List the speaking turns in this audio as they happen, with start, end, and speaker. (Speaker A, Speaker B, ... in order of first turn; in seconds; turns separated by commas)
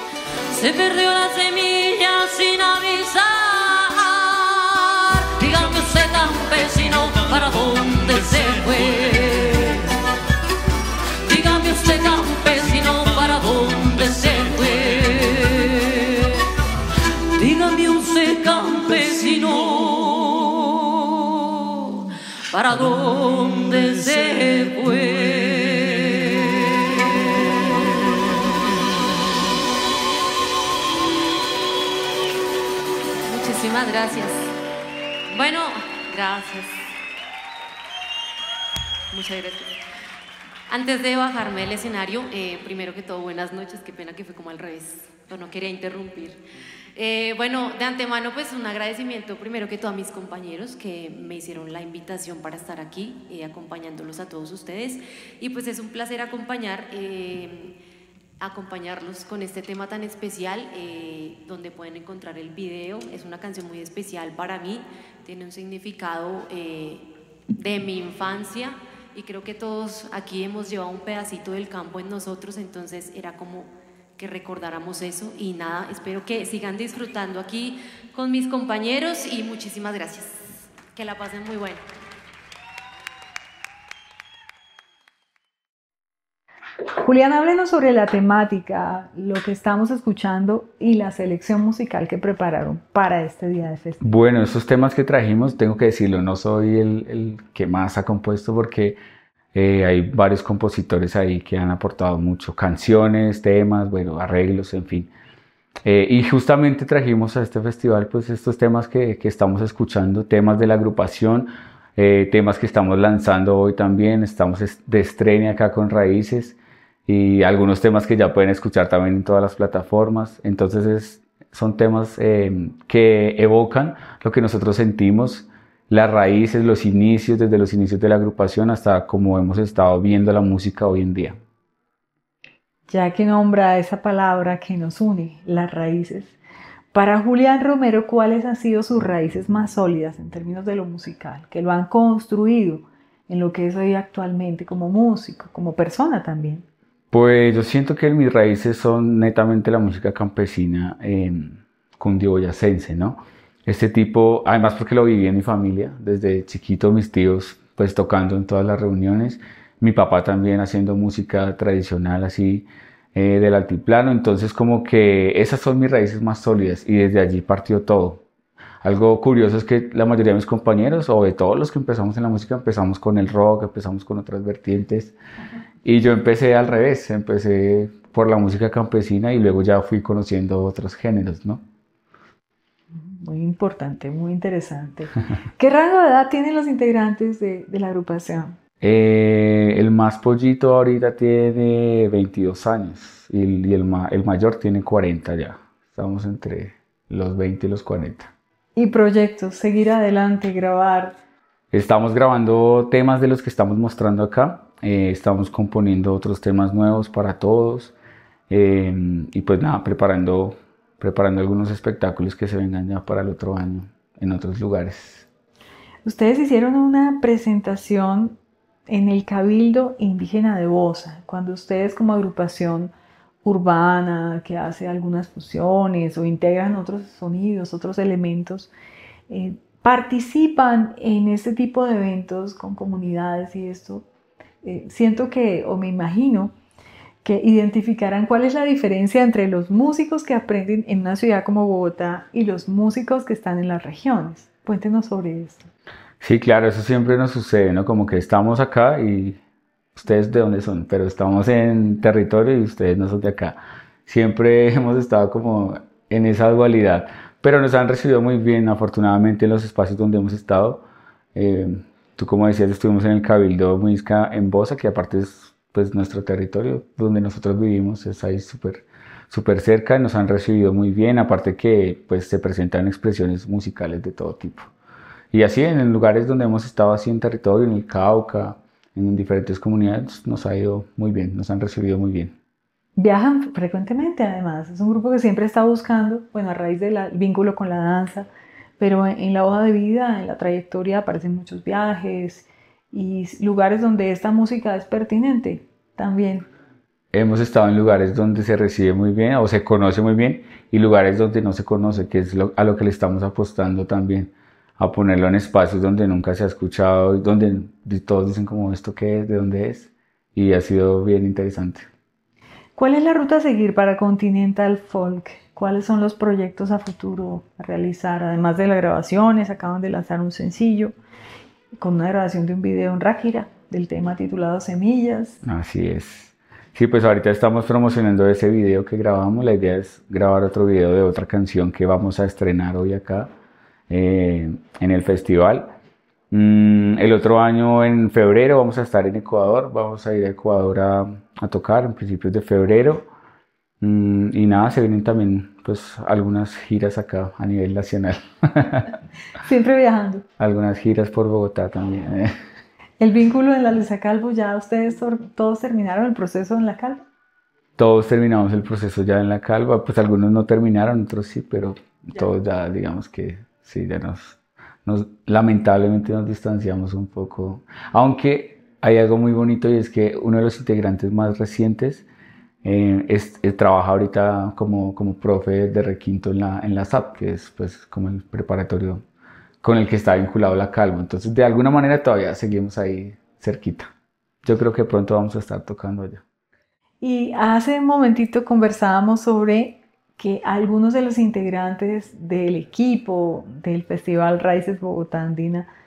Speaker A: 0.5-9.9, Speaker A: 11.2-16.4, Speaker A: 17.4-27.0, Speaker B: 33.2-34.5, Speaker B: 35.3-36.8, Speaker B: 39.1-39.7, Speaker B: 40.7-46.4, Speaker B: 46.9-57.8, Speaker B: 58.4-81.8, Speaker C: 87.0-94.0, Speaker D: 94.0-99.0, Speaker D: 99.5-105.1, Speaker D: 105.8-131.4, Speaker C: 132.9-136.3, Speaker C: 136.9-146.7, Speaker D: 147.1-168.2, Speaker D: 168.8-175.1, Speaker D: 175.8-181.6, Speaker C: 182.9-188.5, Speaker D: 188.8-198.3, Speaker C: 198.8-201.2, Speaker D: 201.7-207.9, Speaker D: 208.5-215.3, Speaker C: 216.0-222.9, Speaker C: 223.4-228.7, Speaker C: 229.3-234.1, Speaker C: 234.6-236.5, Speaker C: 237.2-245.7, Speaker D: 246.2-249.4, Speaker D: 249.9-274.7, Speaker D: 275.3-282.4, Speaker C: 282.9-288.3, Speaker C: 288.8-296.5, Speaker D: 297.1-311.9, Speaker C: 312.8-320.9, Speaker C: 321.8-325.4, Speaker D: 325.4-333.3, Speaker D: 333.9-335.7, Speaker D: 336.3-343.1, Speaker D: 343.8-348.9, Speaker C: 349.4-350.2, Speaker D: 350.4-352.3, Speaker C: 353.0-357.0, Speaker D: 357.8-372.0, Speaker D: 372.6-379.0, Speaker D: 379.6-383.9, Speaker D: 384.4-386.2, Speaker C: 387.0-395.7